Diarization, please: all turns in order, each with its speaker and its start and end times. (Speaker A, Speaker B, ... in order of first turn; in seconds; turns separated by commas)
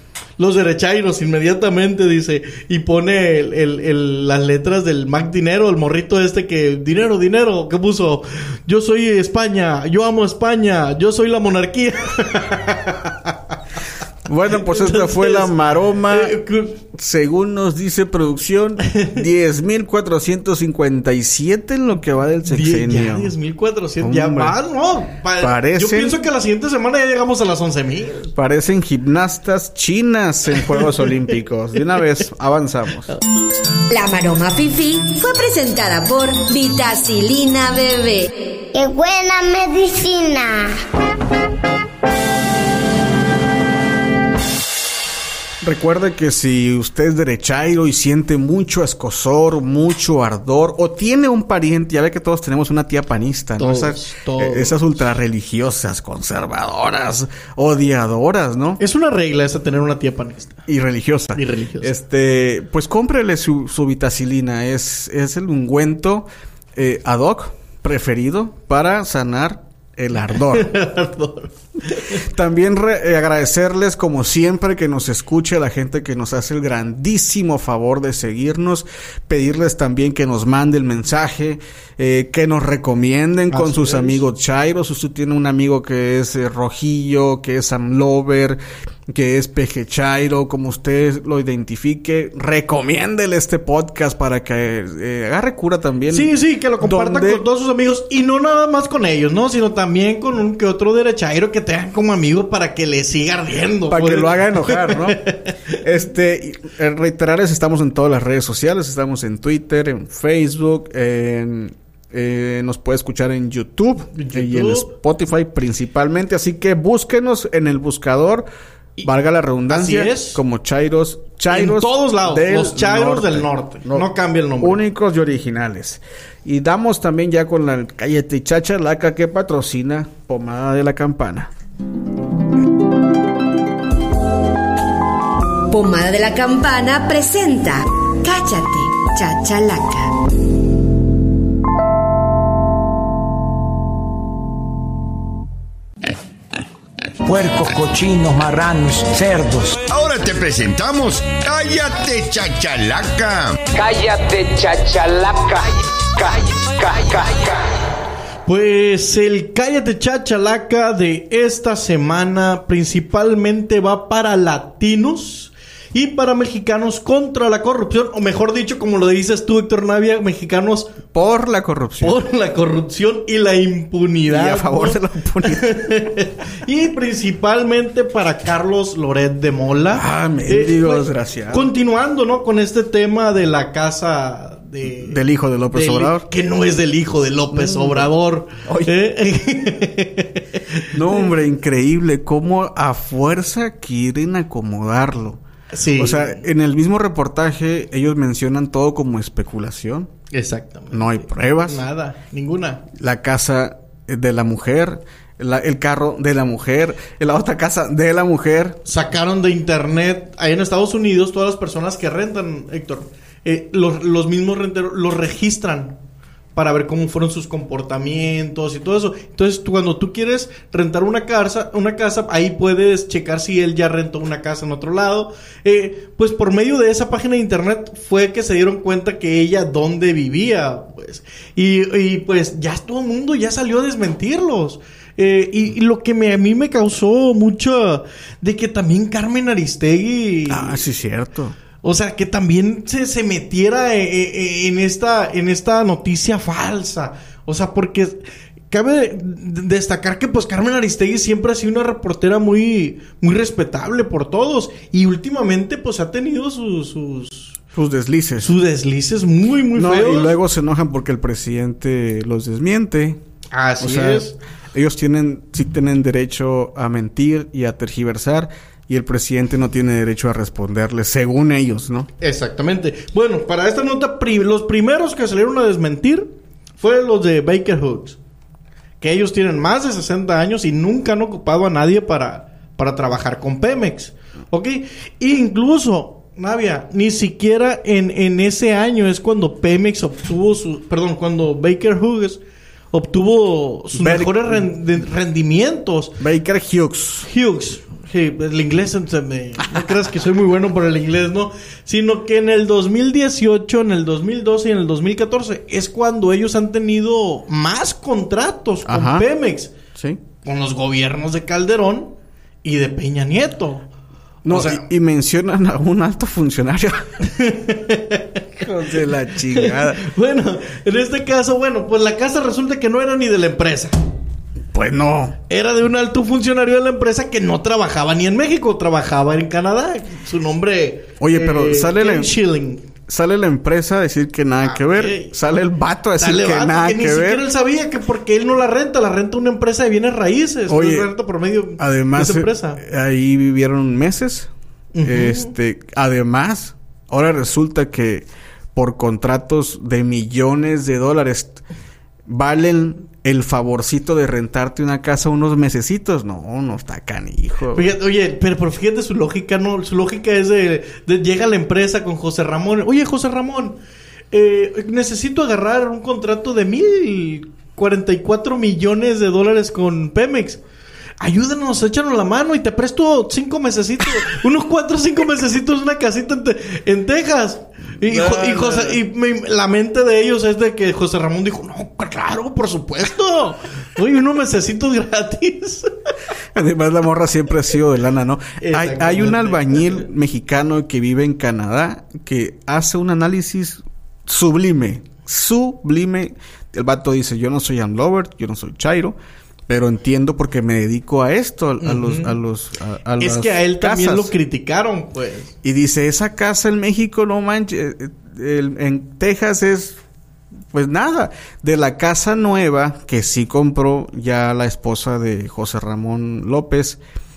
Speaker A: 0.4-13.3, Speaker B: 14.2-23.3, Speaker A: 14.5-16.8, Speaker A: 18.9-19.2, Speaker A: 22.4-28.3, Speaker B: 24.0-24.6, Speaker B: 25.4-26.2, Speaker B: 28.3-33.1, Speaker C: 33.9-38.3, Speaker D: 38.7-40.7, Speaker B: 45.6-58.8, Speaker A: 53.6-54.8, Speaker A: 58.8-60.6, Speaker B: 60.7-70.8, Speaker A: 61.4-61.9, Speaker A: 70.4-72.2, Speaker B: 72.2-97.4, Speaker A: 83.5-84.2, Speaker A: 96.1-105.5, Speaker B: 103.9-105.2, Speaker B: 105.8-118.5, Speaker A: 114.1-114.9, Speaker B: 119.0-124.1, Speaker A: 119.7-120.4, Speaker A: 121.5-124.8, Speaker B: 124.6-131.5, Speaker C: 135.7-140.1, Speaker E: 147.2-149.8, Speaker F: 149.9-153.6, Speaker E: 153.7-157.6, Speaker A: 158.4-171.0, Speaker B: 171.1-172.2, Speaker A: 172.0-191.2, Speaker B: 174.3-175.8, Speaker B: 179.9-181.7, Speaker B: 185.0-186.3, Speaker B: 187.5-188.1, Speaker B: 188.6-188.9, Speaker B: 190.9-195.4, Speaker A: 195.7-196.4, Speaker B: 196.0-200.1, Speaker A: 200.3-202.8, Speaker B: 200.9-201.8, Speaker B: 202.9-208.8, Speaker A: 208.8-216.0, Speaker A: 216.5-240.8, Speaker B: 240.5-241.6, Speaker A: 241.8-257.6, Speaker B: 257.7-258.6, Speaker A: 258.4-260.3, Speaker B: 259.7-263.2, Speaker A: 263.5-264.3, Speaker B: 263.8-272.1, Speaker A: 272.2-278.2, Speaker A: 279.0-292.4, Speaker A: 292.9-296.2, Speaker B: 293.9-294.7, Speaker B: 296.2-297.3, Speaker A: 297.2-309.7, Speaker B: 308.9-309.3, Speaker B: 309.9-310.2, Speaker A: 310.4-312.1, Speaker A: 312.6-313.9, Speaker B: 314.4-317.0, Speaker A: 314.5-314.8, Speaker A: 317.2-318.7, Speaker B: 318.6-320.0, Speaker A: 319.5-323.9, Speaker B: 324.7-325.4, Speaker A: 325.5-332.8, Speaker B: 331.2-332.3, Speaker B: 333.1-337.4, Speaker A: 334.6-335.4, Speaker A: 336.2-342.8, Speaker B: 340.7-341.1, Speaker B: 341.8-344.5, Speaker A: 344.9-345.5, Speaker B: 345.0-351.6, Speaker B: 352.2-357.9, Speaker A: 357.7-363.8, Speaker A: 364.3-370.6, Speaker A: 371.2-385.9, Speaker B: 378.0-379.0, Speaker B: 386.5-399.2, Speaker A: 388.6-390.0, Speaker B: 399.7-404.3, Speaker A: 401.8-402.4, Speaker A: 403.2-405.5, Speaker B: 405.6-410.0, Speaker B: 410.7-417.0